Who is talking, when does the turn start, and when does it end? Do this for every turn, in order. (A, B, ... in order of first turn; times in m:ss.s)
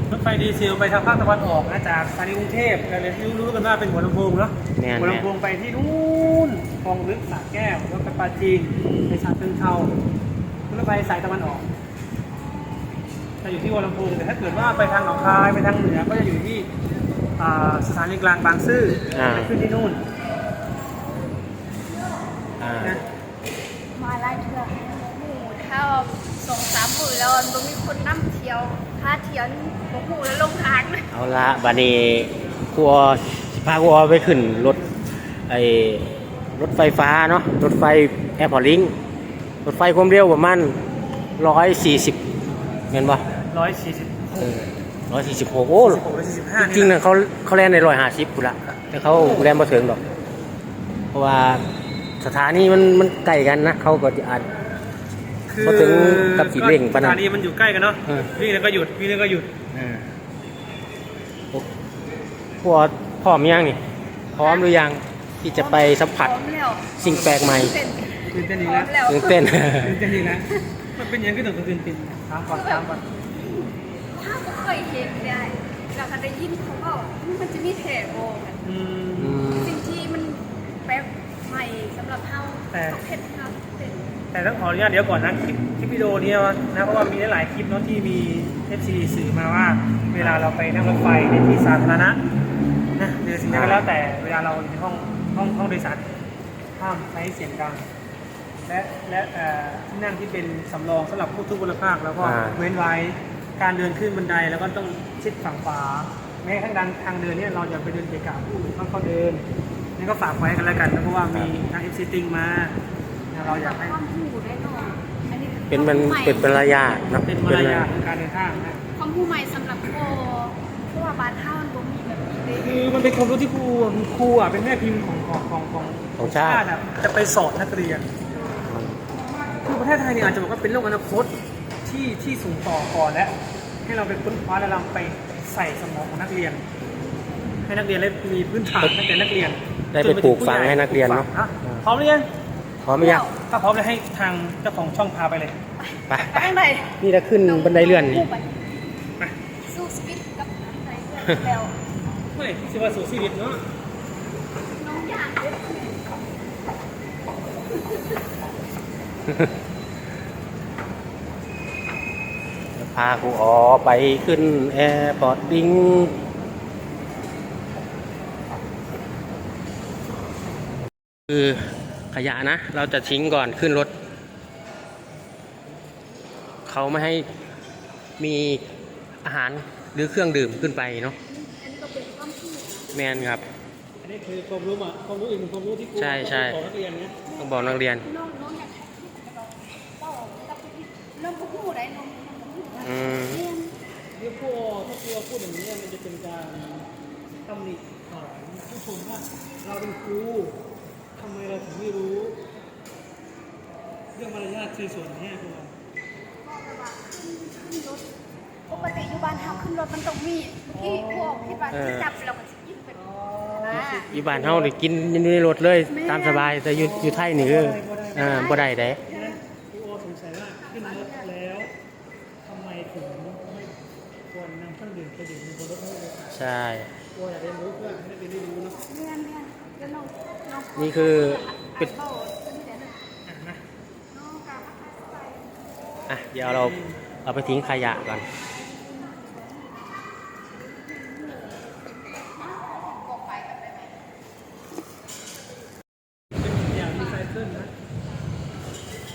0:00.1-0:09.9 A
0:04.8-0:05.3 B
0:10.7-0:11.7 A
0:13.4-0:16.7 A
0:17.4-0:20.0 A
0:19.1-0:19.5 B
0:22.6-0:23.0 B
0:23.9-0:31.1 C
0:31.1-0:34.8 B
0:35.5-0:39.0 B
0:39.6-0:40.8 B
0:41.4-0:42.2 B
0:42.9-0:43.2 B
0:43.5-0:44.4 A
0:44.4-0:46.0 B
0:45.8-0:47.0 A
0:46.6-0:50.0 B
0:49.1-0:49.6 A
0:51.1-0:51.6 B
0:52.2-0:54.5 B
0:55.5-0:59.5 A
0:55.6-0:57.2 B
0:59.7-1:00.1 B
1:02.6-1:03.8 B
1:04.3-1:06.3 B
1:04.4-1:04.7 C
1:05.5-1:09.5 C
1:07.0-1:07.7 B
1:07.0-1:07.4 A
1:08.3-1:08.9 A
1:09.0-1:10.0 B
1:09.7-1:13.1 A
1:12.5-1:18.6 C
1:18.6-1:19.4 A
1:19.2-1:19.7 B
1:19.6-1:24.1 C
1:22.7-1:23.0 A
1:24.3-1:32.2 A
1:33.0-1:36.0 A
1:33.5-1:33.8 B
1:36.8-1:37.9 A
1:38.6-1:49.4 A
1:42.2-1:42.6 B
1:50.0-1:52.8 A
1:53.3-1:54.0 A
1:53.4-1:56.8 C
1:55.7-1:57.9 B
1:57.3-1:58.8 A
1:58.9-2:02.8 C
2:02.5-2:08.1 A
2:06.2-2:06.6 B
2:08.6-2:09.0 B
2:09.5-2:11.3 A
2:11.8-2:16.7 A
2:17.6-2:22.3 A
2:19.9-2:21.8 B
2:22.8-2:23.2 B
2:23.0-2:23.4 C
2:23.4-2:25.6 A
2:25.8-2:28.8 C
2:26.1-2:28.3 B
2:29.6-2:31.8 C
2:32.3-2:33.6 A
2:34.8-2:36.0 C
2:37.7-2:38.2 C
2:42.8-2:46.2 B
2:51.3-2:53.9 B
2:56.6-2:57.2 B
2:58.2-2:58.6 B
2:59.2-3:01.2 B
3:01.2-3:02.9 C
3:02.9-3:03.4 B
3:04.0-3:07.3 A
3:06.0-3:06.6 B
3:07.3-3:13.8 C
3:07.4-3:08.0 B
3:12.8-3:13.4 B
3:14.1-3:16.9 A
3:17.4-3:20.6 A
3:21.1-3:22.5 A
3:24.1-3:25.8 A
3:26.4-3:28.1 C
3:28.7-3:33.0 C
3:28.7-3:29.7 A
3:30.7-3:31.7 A
3:31.7-3:32.1 B
3:32.9-3:34.7 A
3:33.6-3:34.1 C
3:33.7-3:39.0 B
3:35.9-3:36.6 C
3:36.7-3:41.7 A
3:38.2-3:39.4 C
3:40.6-3:41.3 C
3:42.4-3:46.4 A
3:46.3-3:46.9 B
3:47.1-3:48.8 A
3:48.9-3:53.1 C
3:50.8-3:51.9 B
3:53.2-3:53.6 A
3:54.1-3:56.1 C
3:56.1-3:58.2 B
3:56.3-3:57.0 A
3:57.3-4:04.0 C
4:06.4-4:07.7 A
4:07.0-4:07.2 C